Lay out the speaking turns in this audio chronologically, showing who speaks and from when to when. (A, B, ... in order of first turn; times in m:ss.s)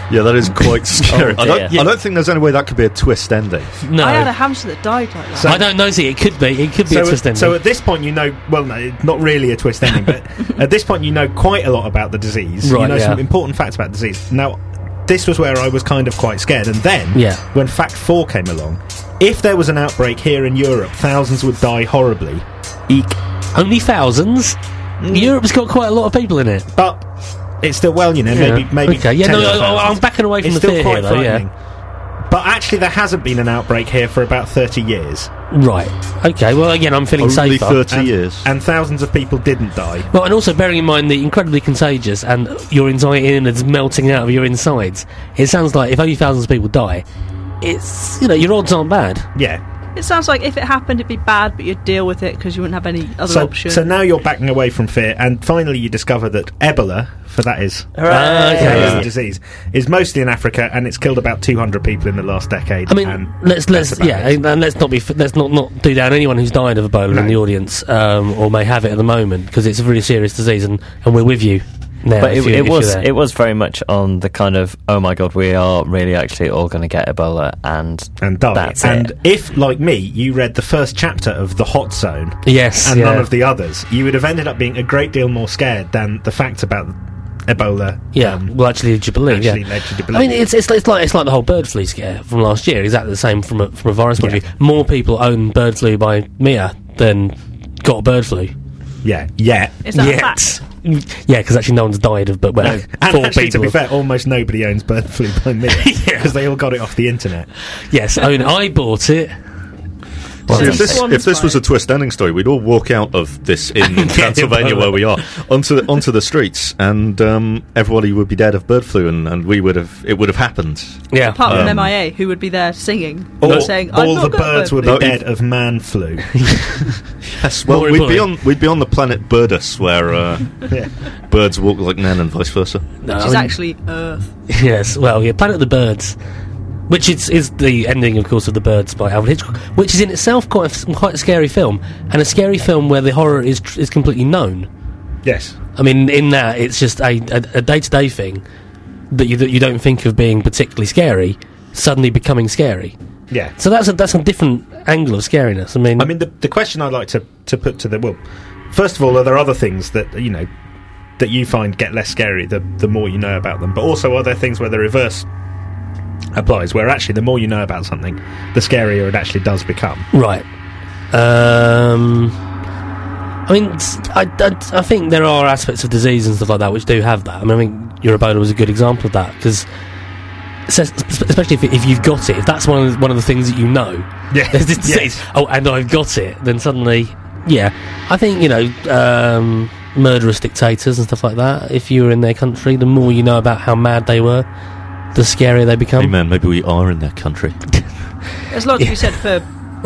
0:00.1-0:03.8 A
0:01.1-0:01.9 B
0:03.8-0:04.3 C
0:04.0-0:05.6 D
0:05.3-0:05.6 E
0:05.4-0:07.6 C
0:06.9-0:23.1 E
0:12.6-0:13.2 C
0:17.1-0:17.4 C
0:23.5-0:24.6 C
0:25.0-0:25.3 E
0:25.1-0:26.7 C
0:26.7-0:27.0 E
0:27.6-0:31.5 E
0:28.3-0:31.4 C
0:32.3-0:35.3 E
0:35.5-0:37.8 C
0:37.2-0:38.5 A
0:37.9-0:40.1 E
0:40.1-0:47.0 C
0:47.6-0:49.3 C
0:49.3-0:49.6 E
0:50.0-0:53.9 D
0:53.3-1:04.4 E
0:58.0-0:59.0 B
0:58.1-0:59.0 C
0:58.7-0:59.1 A
1:02.9-1:13.1 C
1:07.1-1:07.4 E
1:12.2-1:19.1 B
1:18.2-1:26.9 E
1:22.4-1:23.3 C
1:27.5-1:28.5 E
1:28.1-1:38.5 C
1:29.2-1:30.4 E
1:39.0-1:39.8 E
1:39.8-1:40.6 D
1:39.9-1:43.8 C
1:42.6-1:47.5 E
1:45.8-1:46.3 C
1:47.9-1:49.3 C
1:50.5-1:51.6 D
1:50.5-2:01.9 A
1:50.5-1:51.0 B
1:53.9-1:55.1 C
2:01.1-2:01.5 C
2:01.3-2:05.0 D
2:03.4-2:06.8 E
2:04.8-2:05.2 A
2:06.4-2:06.8 C
2:07.2-2:10.7 A
2:07.7-2:08.3 C
2:11.3-2:12.8 A
2:13.0-2:13.5 C
2:13.1-2:14.3 D
2:14.5-2:16.2 C
2:16.9-2:24.7 C
2:25.2-2:25.6 E
2:25.8-2:28.4 C
2:29.1-2:32.9 C
2:33.6-2:36.1 C
2:36.0-2:40.5 E
2:41.2-2:45.2 E
2:46.4-2:50.1 E
2:50.1-2:50.4 C
2:51.1-2:52.4 C
2:53.5-2:59.6 C
3:00.7-3:14.4 C
3:04.3-3:05.2 E
3:15.1-3:16.1 C
3:16.0-3:17.6 A
3:18.5-3:19.4 D